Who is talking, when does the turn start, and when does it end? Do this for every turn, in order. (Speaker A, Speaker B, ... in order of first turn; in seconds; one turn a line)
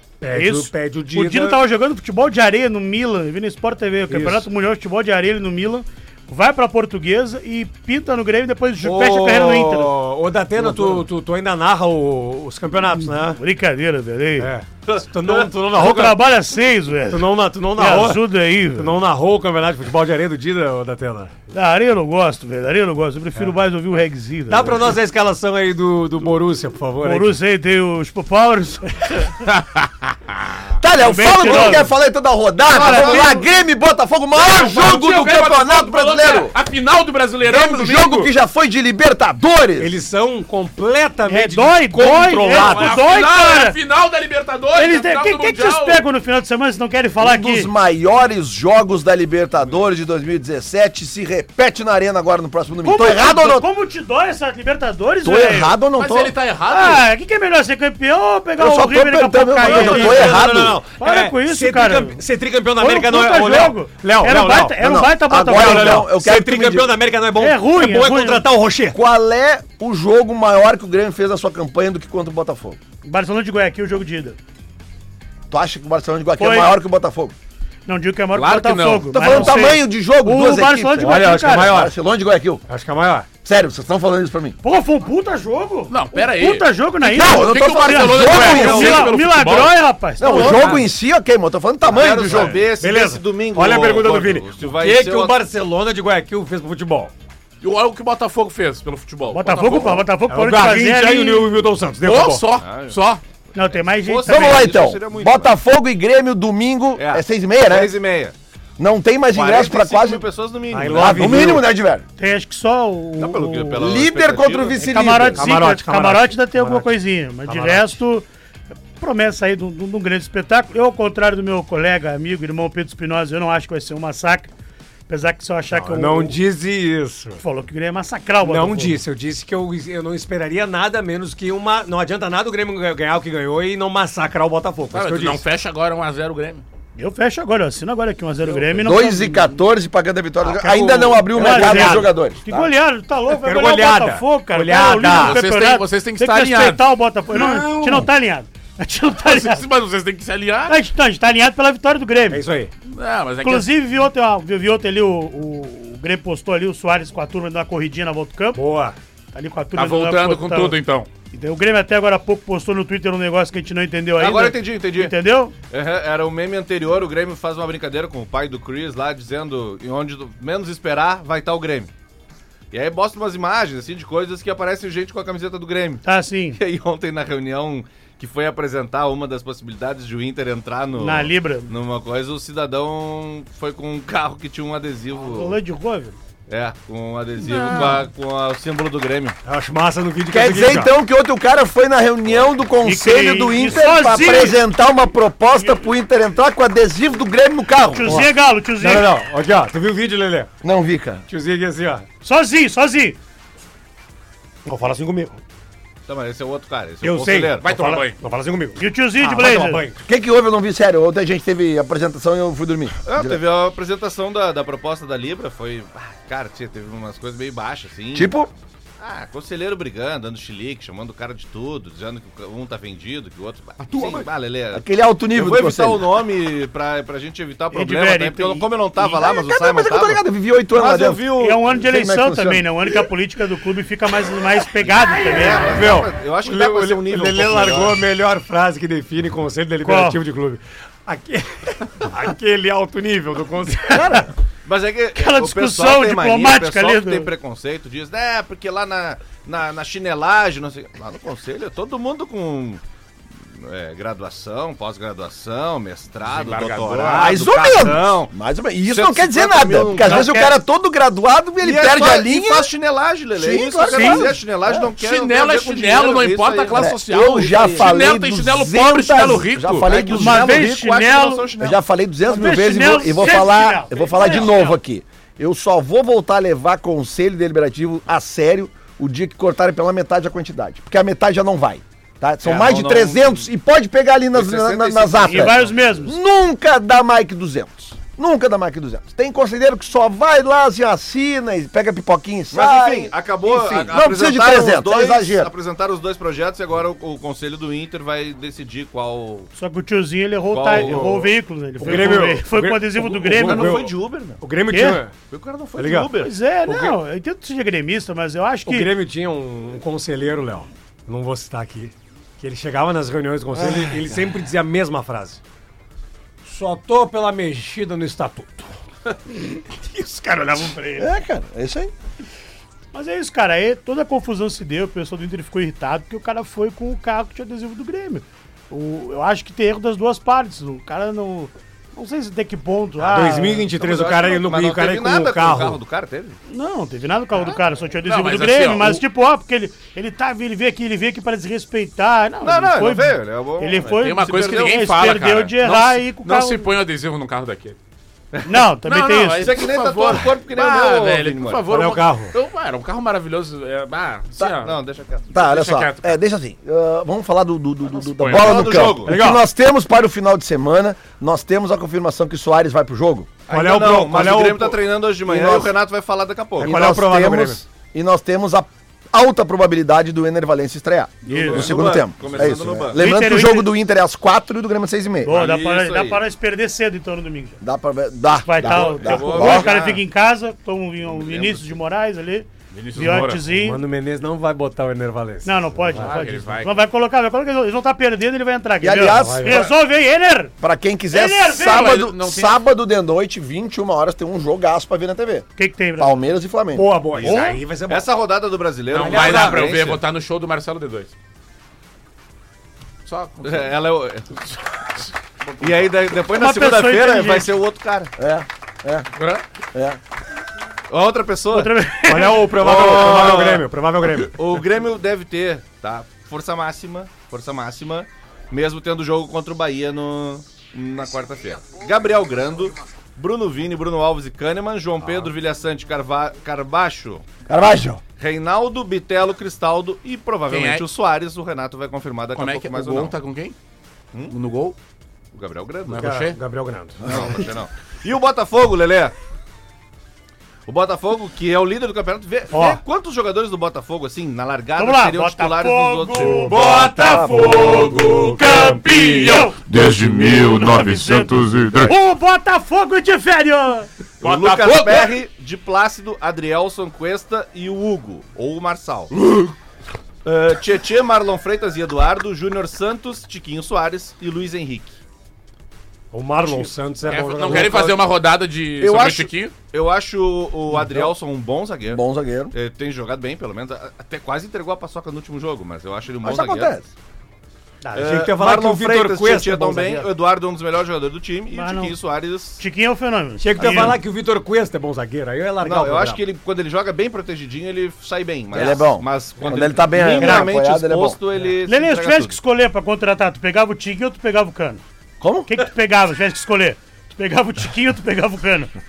Speaker A: 0.2-1.6
Speaker B: 0.3-9.9
Speaker A: 4.1-4.5
Speaker A: 8.8-13.4
Speaker C: 10.6-10.9
Speaker B: 13.4-14.5
Speaker A: 14.4-16.2
Speaker C: 14.9-15.4
Speaker B: 15.7-18.9
Speaker A: 17.1-18.2
Speaker A: 18.7-21.3
Speaker B: 21.5-24.9
Speaker A: 24.5-27.3
Speaker B: 27.0-29.3
Speaker D: 29.5-29.9
Speaker E: 30.8-36.5
Speaker B: 31.0-31.9
Speaker B: 32.7-33.4
Speaker C: 32.8-33.1
Speaker D: 34.4-38.3
Speaker E: 37.4-39.9
Speaker A: 39.8-42.9
Speaker B: 41.3-43.8
Speaker D: 42.5-46.0
Speaker B: 44.7-47.7
Speaker E: 47.2-53.7
Speaker B: 52.8-55.7
Speaker E: 55.2-56.3
Speaker D: 56.0-57.0
Speaker B: 56.7-60.5
Speaker E: 58.6-60.8
Speaker A: 59.6-64.8
Speaker B: 61.0-62.2
Speaker B: 62.8-66.0
Speaker E: 64.8-67.0
Speaker A: 65.4-69.0
Speaker B: 67.4-68.4
Speaker E: 68.9-72.8
Speaker B: 73.0-74.4
Speaker E: 75.5-77.3
Speaker B: 76.4-76.7
Speaker B: 77.8-81.8
Speaker D: 78.3-79.5
Speaker E: 79.1-82.6
Speaker A: 81.0-81.9
Speaker A: 82.7-83.3
Speaker E: 83.4-84.6
Speaker B: 84.6-90.8
Speaker D: 85.9-86.7
Speaker E: 87.0-89.1
Speaker D: 87.2-89.8
Speaker E: 90.2-92.5
Speaker A: 90.3-90.8
Speaker C: 91.8-95.4
Speaker A: 92.3-97.1
Speaker D: 97.6-100.0
Speaker B: 99.3-101.5
Speaker A: 100.3-102.4
Speaker D: 102.0-103.2
Speaker C: 102.6-103.0
Speaker B: 103.5-104.8
Speaker C: 103.6-105.5
Speaker E: 104.2-107.9
Speaker C: 107.0-108.3
Speaker E: 108.8-110.2
Speaker C: 109.3-111.6
Speaker A: 110.7-111.6
Speaker E: 111.0-112.0
Speaker B: 112.2-113.9
Speaker C: 113.2-115.0
Speaker E: 113.8-115.4
Speaker B: 114.8-118.3
Speaker A: 115.3-118.0
Speaker B: 119.0-124.5
Speaker B: 125.1-126.3
Speaker A: 125.7-127.4
Speaker B: 127.4-129.0
Speaker A: 128.4-135.4
Speaker D: 134.9-136.6
Speaker B: 136.9-139.6
Speaker E: 138.8-142.7
Speaker B: 140.5-149.6
Speaker A: 140.6-142.1
Speaker A: 143.4-145.4
Speaker D: 145.1-146.8
Speaker A: 147.7-148.0
Speaker D: 149.2-150.8
Speaker B: 150.7-152.4
Speaker A: 152.3-152.7
Speaker D: 152.8-153.7
Speaker B: 153.4-158.6
Speaker A: 158.5-158.9
Speaker B: 159.3-160.8
Speaker D: 159.7-161.1
Speaker B: 161.3-165.5
Speaker C: 164.2-165.1
Speaker C: 165.7-171.9
Speaker C: 172.7-176.0
Speaker B: 176.0-176.6
Speaker C: 176.6-185.6
Speaker B: 180.9-181.7
Speaker B: 185.2-186.2
Speaker C: 186.5-189.4
Speaker B: 187.5-188.0
Speaker A: 189.4-190.9
Speaker E: 190.3-198.2
Speaker B: 192.8-194.6
Speaker B: 197.9-199.1
Speaker A: 198.0-200.5
Speaker E: 200.6-201.2
Speaker A: 201.3-202.1
Speaker B: 202.2-203.2
Speaker A: 204.7-205.4
Speaker C: 206.1-207.7
Speaker A: 207.0-210.0
Speaker D: 207.6-208.2
Speaker B: 208.8-209.8
Speaker E: 210.1-213.4
Speaker C: 213.1-218.3
Speaker E: 218.1-218.5
Speaker C: 219.0-230.2
Speaker E: 224.7-226.1
Speaker B: 227.7-228.7
Speaker E: 229.0-233.1
Speaker C: 230.7-231.7
Speaker B: 231.3-235.9
Speaker C: 234.8-238.0
Speaker A: 235.7-244.1
Speaker B: 239.8-240.2
Speaker E: 243.9-244.3
Speaker C: 244.6-252.8
Speaker B: 245.1-247.3
Speaker C: 253.5-258.3
Speaker D: 256.2-257.4
Speaker E: 257.1-262.7
Speaker C: 258.9-260.5
Speaker B: 259.9-260.6
Speaker C: 261.6-268.1
Speaker E: 263.4-264.9
Speaker B: 263.9-264.3
Speaker D: 265.0-269.9
Speaker E: 266.7-270.7
Speaker C: 269.8-271.8
Speaker B: 270.1-271.5
Speaker E: 271.6-295.5
Speaker B: 272.2-274.8
Speaker C: 282.4-283.4
Speaker C: 284.3-285.8
Speaker B: 285.3-286.2
Speaker C: 292.5-299.5
Speaker B: 299.5-303.9
Speaker C: 300.5-301.3
Speaker A: 300.7-301.3
Speaker A: 301.8-305.1
Speaker C: 301.8-302.2
Speaker C: 303.3-304.4
Speaker B: 304.7-305.0
Speaker C: 305.2-306.3
Speaker A: 305.8-306.1
Speaker B: 306.2-308.9
Speaker A: 306.6-307.0
Speaker A: 308.6-315.4
Speaker A: 316.4-318.7
Speaker A: 320.0-320.6
Speaker B: 320.2-321.0
Speaker E: 321.0-321.9
Speaker B: 322.9-333.7
Speaker A: 333.0-335.8
Speaker C: 333.7-336.4
Speaker B: 336.5-346.7
Speaker D: 338.0-339.0
Speaker C: 342.4-344.6
Speaker D: 344.0-347.8
Speaker C: 348.3-348.6
Speaker B: 348.4-349.6
Speaker D: 348.8-354.8
Speaker C: 349.4-351.6
Speaker A: 351.7-352.3
Speaker C: 354.6-355.3
Speaker E: 355.3-363.3
Speaker D: 355.3-356.2
Speaker D: 357.9-358.9
Speaker C: 358.3-359.1
Speaker A: 359.0-359.4
Speaker C: 363.5-366.7
Speaker A: 363.5-364.8
Speaker E: 365.2-365.7
Speaker A: 366.6-367.6
Speaker E: 366.6-375.4
Speaker B: 371.2-371.7
Speaker C: 371.3-373.1
Speaker B: 373.0-373.7
Speaker B: 375.2-377.6
Speaker C: 375.3-376.2
Speaker E: 377.6-379.7
Speaker B: 378.4-383.8
Speaker C: 378.6-380.0
Speaker C: 381.0-381.8
Speaker D: 382.7-383.5
Speaker A: 383.6-386.2
Speaker B: 385.4-390.5
Speaker D: 385.9-386.8
Speaker E: 388.8-389.7
Speaker A: 389.1-389.7
Speaker E: 390.6-395.5
Speaker B: 391.1-392.0
Speaker D: 391.6-392.6
Speaker B: 395.6-396.2
Speaker E: 396.0-396.9
Speaker A: 396.7-398.1
Speaker C: 397.2-400.0
Speaker B: 397.2-397.6
Speaker A: 398.9-399.7
Speaker D: 398.9-401.1
Speaker D: 403.0-403.8
Speaker C: 403.4-404.3
Speaker D: 404.4-405.9
Speaker C: 405.6-408.1
Speaker B: 406.3-407.5
Speaker E: 408.2-409.1
Speaker D: 409.1-409.4
Speaker E: 409.7-410.0
Speaker C: 410.9-411.7
Speaker B: 411.5-412.5
Speaker A: 412.1-414.4
Speaker C: 412.6-413.6
Speaker C: 414.3-427.2
Speaker E: 427.5-428.0
Speaker C: 428.2-433.1
Speaker D: 430.5-430.9
Speaker D: 432.4-433.6
Speaker D: 434.3-434.8
Speaker C: 435.3-436.1
Speaker D: 435.9-436.4
Speaker A: 436.0-437.1
Speaker C: 437.0-439.1
Speaker E: 437.1-437.4
Speaker C: 440.6-446.6
Speaker B: 442.5-442.8
Speaker B: 444.8-453.9
Speaker A: 446.4-448.0
Speaker D: 446.5-451.9
Speaker E: 446.9-448.2
Speaker C: 454.2-459.1
Speaker D: 454.2-455.1
Speaker C: 460.2-465.0
Speaker A: 466.1-467.8
Speaker D: 467.1-469.5
Speaker C: 468.8-469.2
Speaker C: 469.7-476.8
Speaker E: 471.9-472.5
Speaker E: 476.2-476.8
Speaker A: 477.8-480.1
Speaker C: 477.9-482.6
Speaker B: 481.5-482.0
Speaker B: 482.6-484.0
Speaker A: 483.4-486.2
Speaker C: 483.6-483.9
Speaker C: 485.6-492.4
Speaker E: 488.5-491.2
Speaker B: 491.6-494.8
Speaker E: 495.2-495.5
Speaker B: 495.5-498.7